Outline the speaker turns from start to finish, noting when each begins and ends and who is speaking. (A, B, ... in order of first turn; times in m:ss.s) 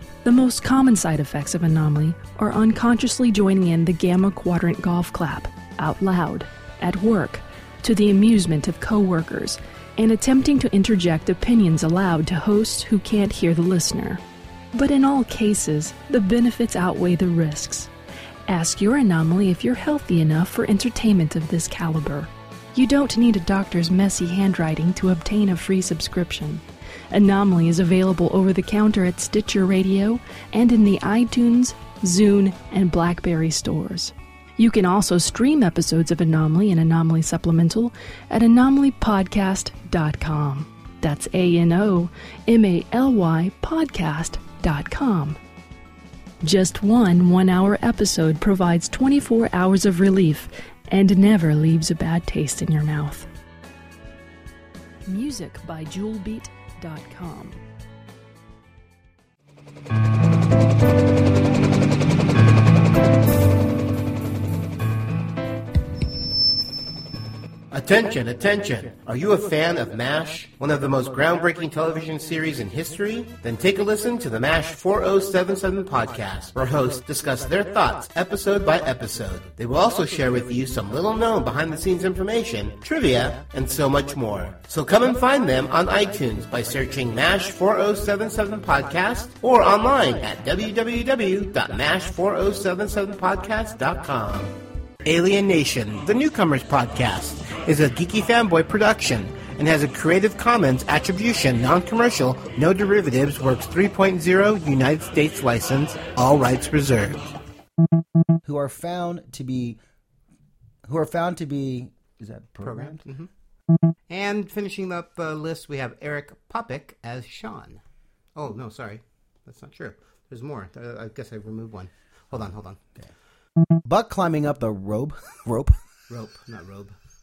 0:00.2-0:14.2 A
0:14.7-0:17.9 A
0:18.5-0:45.4 A
0:46.4-0:53.3 A
0:55.0-0:57.6 A
1:07.7-1:47.2 B
1:48.4-1:49.8 C
1:50.8-1:53.0 C
1:52.6-1:53.3 B
1:54.1-1:57.8 B
1:58.4-2:02.8 B
2:03.8-2:05.8 C
2:06.1-2:06.9 B